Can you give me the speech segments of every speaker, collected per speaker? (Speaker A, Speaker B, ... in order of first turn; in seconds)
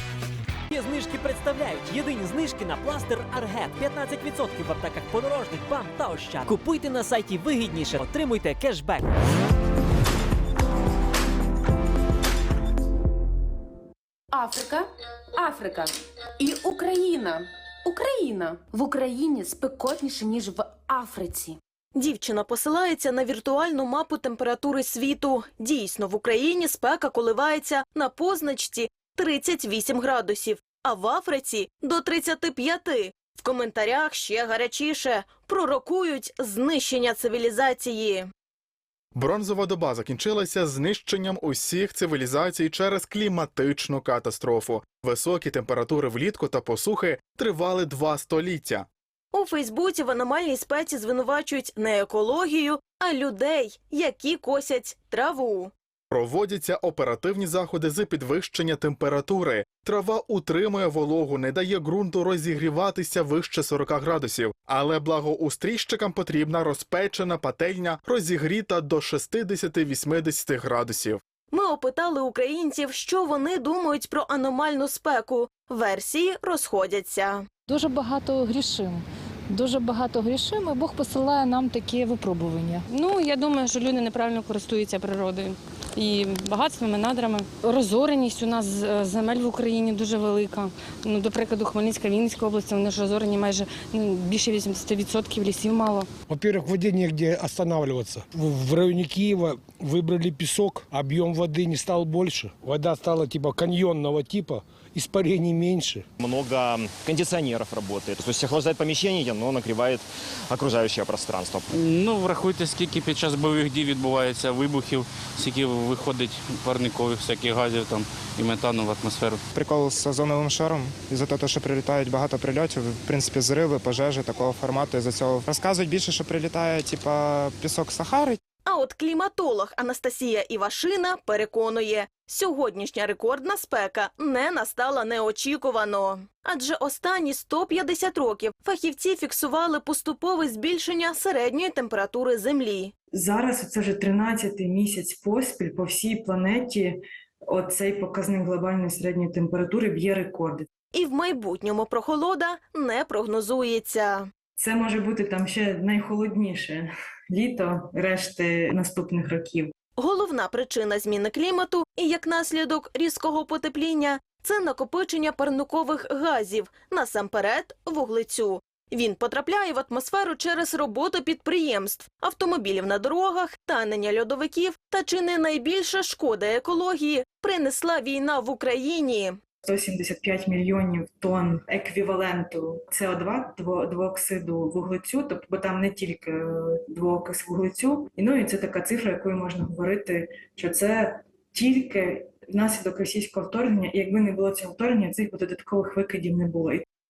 Speaker A: 0.7-9.1
Speaker B: 14.3-21.6
Speaker C: 21.9-38.3, 49.3-55.7, 71.5-77.5, 128.6-142.9, 150.9-154.3, 160.0-179.4
Speaker D: 39.1-48.9, 56.1-71.2
Speaker E: 77.7-82.8
Speaker F: 82.9-96.1
Speaker G: 96.3-106.0
Speaker H: 106.2-111.7
Speaker I: 111.7-119.4
Speaker J: 119.5-128.4
Speaker K: 143.1-150.7, 154.6-159.7, 179.6-196.8